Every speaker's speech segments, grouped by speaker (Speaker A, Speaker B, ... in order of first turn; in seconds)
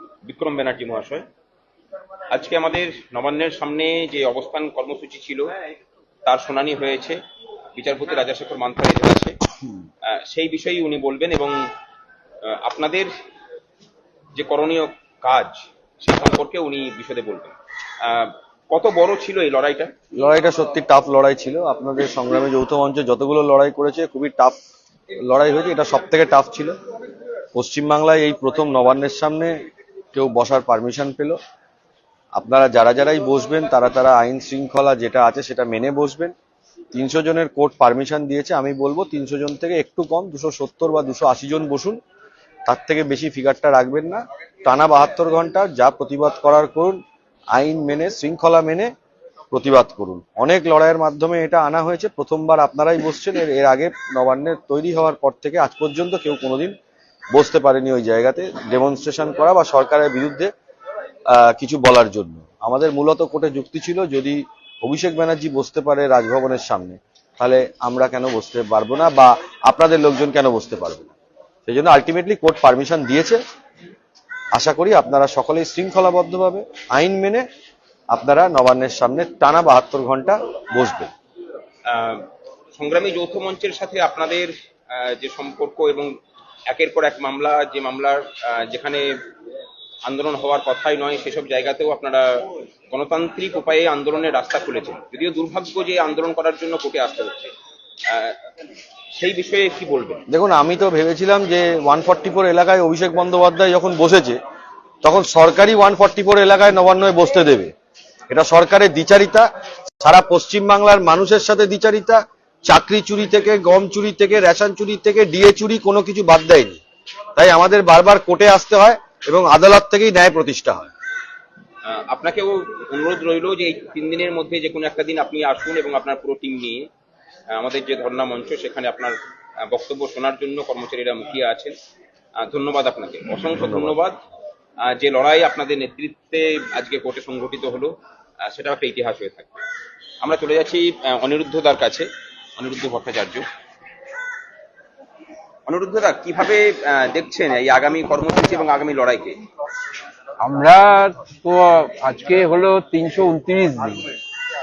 Speaker A: 0.2-1.2, 2.3-5.5, 6.2-7.2, 7.8-9.4, 10.1-11.5, 12.4-13.1, 14.3-19.9, 81.9-86.1, 86.7-89.0, 90.0-97.5, 98.1-98.3, 99.2-100.2, 121.8-126.9, 127.5-129.2, 129.7-131.7, 132.4-134.2, 134.8-137.9, 138.5-139.6, 140.2-143.4, 145.7-149.4
Speaker B: 20.1-24.6, 25.2-26.8, 27.5-29.5, 30.1-31.4, 32.3-36.3, 36.9-42.0, 42.6-47.0, 47.5-48.9, 49.5-56.8, 57.3-60.5, 61.3-71.1, 71.7-73.4, 74.5-77.5, 78.1-81.1, 100.3-104.4, 105.0-107.7, 108.3-109.5, 110.0-116.8, 117.3-120.9, 133.6-134.0
Speaker C: 150.4-154.0